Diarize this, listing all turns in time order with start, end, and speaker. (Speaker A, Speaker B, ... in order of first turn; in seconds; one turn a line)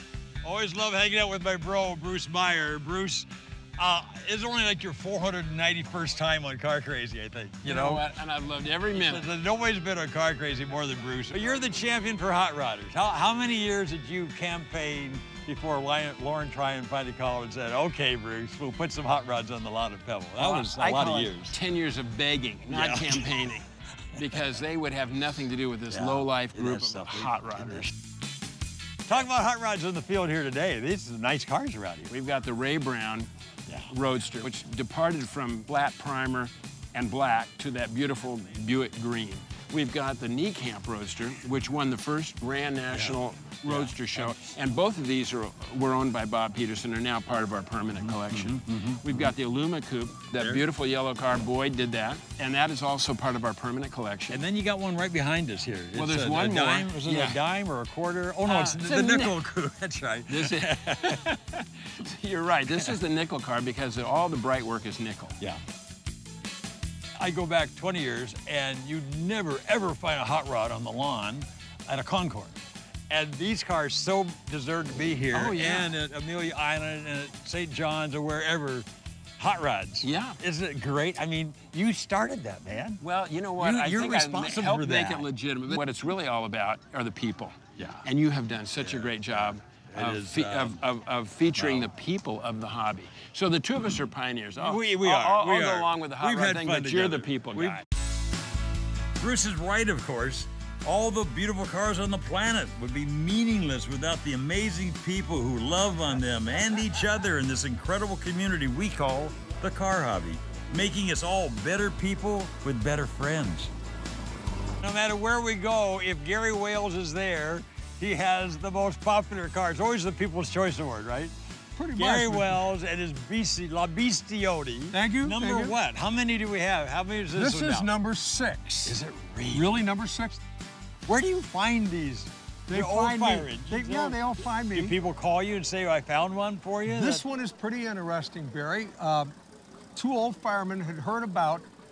Speaker A: 0.4-8.0
Speaker B: 7.6-9.3
Speaker A: 8.9-21.5
Speaker B: 20.4-27.9
Speaker A: 22.7-23.3
Speaker A: 25.9-27.9
Speaker A: 29.1-32.1
Speaker B: 32.1-33.3
Speaker B: 33.9-54.4
Speaker A: 42.9-44.3
Speaker A: 48.0-49.3
Speaker A: 50.4-50.6
Speaker A: 54.3-61.2
Speaker B: 55.9-57.4
Speaker B: 58.5-59.4
Speaker B: 60.3-65.4
Speaker A: 67.2-72.6
Speaker A: 73.1-78.9
Speaker B: 75.3-75.9
Speaker A: 79.4-83.0
Speaker B: 80.0-80.4
Speaker B: 83.0-97.8
Speaker A: 83.6-85.8
Speaker A: 87.8-88.0
Speaker A: 88.8-90.8
Speaker A: 91.6-91.9
Speaker A: 94.6-97.8
Speaker A: 99.2-113.7
Speaker A: 114.8-121.3
Speaker C: 121.8-122.6
Speaker A: 121.9-127.9
Speaker C: 124.9-125.7
Speaker C: 127.3-129.0
Speaker A: 128.8-129.8
Speaker C: 129.5-130.4
Speaker A: 131.1-134.2
Speaker C: 132.7-134.9
Speaker A: 134.7-137.2
Speaker C: 136.8-139.3
Speaker C: 139.9-141.7